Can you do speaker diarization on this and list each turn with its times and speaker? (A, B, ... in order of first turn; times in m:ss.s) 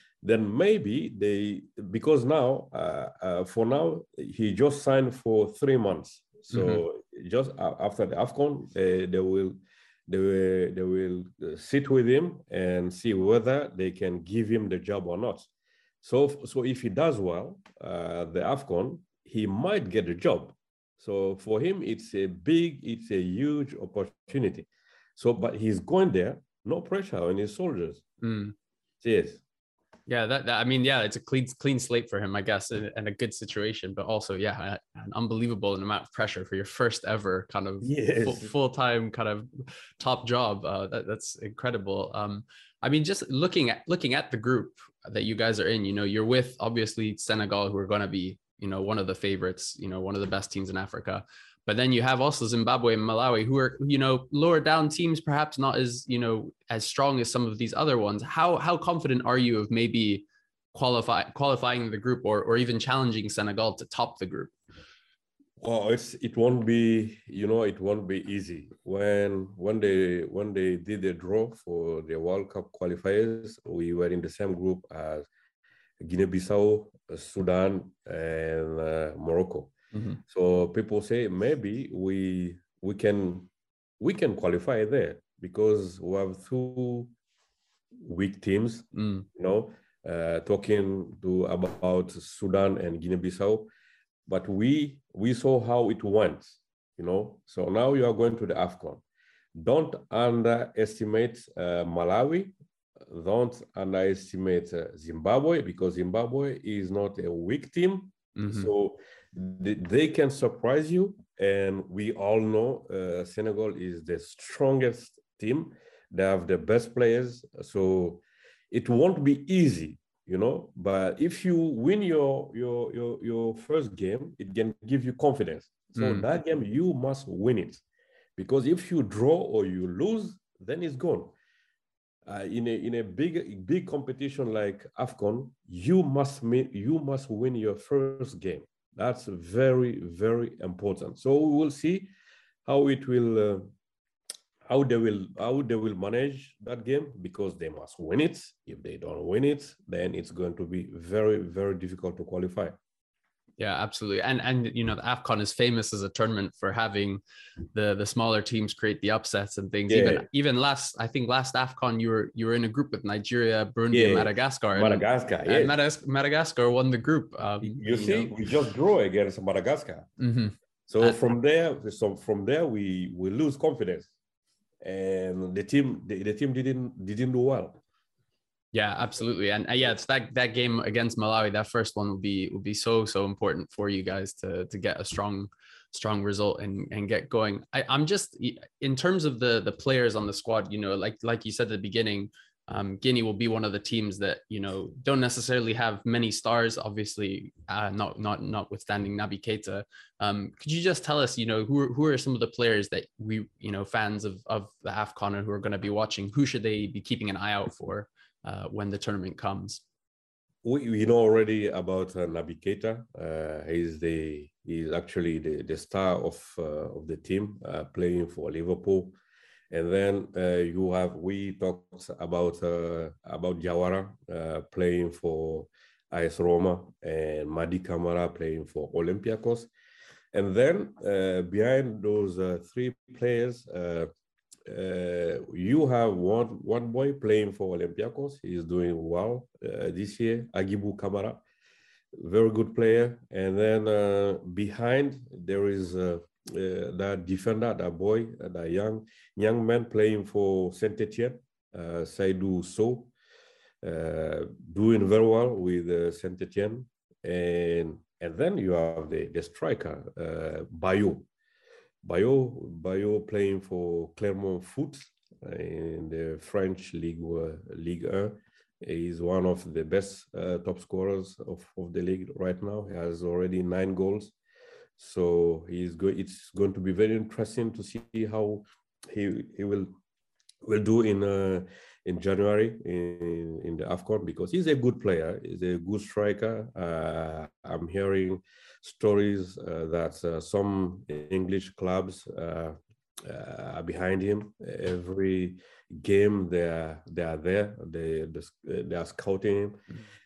0:00.2-0:15.5 A
0:06.5-0:06.8 B
0:16.0-0:28.0 A
0:28.2-0:28.5 B
0:29.0-0:29.4 A
0:30.1-1:04.5 B
0:37.8-0:38.5 A
1:05.6-1:15.3 A
1:16.0-1:19.7 A
1:19.9-1:20.2 B
1:20.3-1:27.1 A
1:28.0-1:33.7 A
1:28.9-1:29.2 B
1:34.3-1:39.0 A
1:39.5-2:07.8 A
1:48.4-1:48.7 B
2:05.9-2:06.3 B
2:08.4-2:11.3 A
2:12.2-2:22.1 A
2:22.6-2:23.7 A
2:24.6-2:32.8 A
2:33.6-2:37.2 B
2:37.7-2:48.3 B
2:39.9-2:40.2 A
2:43.9-2:45.8 A
2:47.6-2:50.1 A
2:50.2-2:51.2 B
2:50.9-2:54.1 A
2:54.8-2:57.8 A
2:58.7-3:29.8 B
3:30.6-3:39.2 A
3:39.7-3:49.7 A
3:50.3-3:54.1 A
3:54.7-4:01.4 A
4:02.2-4:13.1 A
4:13.8-4:21.3 A
4:22.0-4:34.3 A
4:35.0-4:39.9 A
4:40.6-4:59.9 A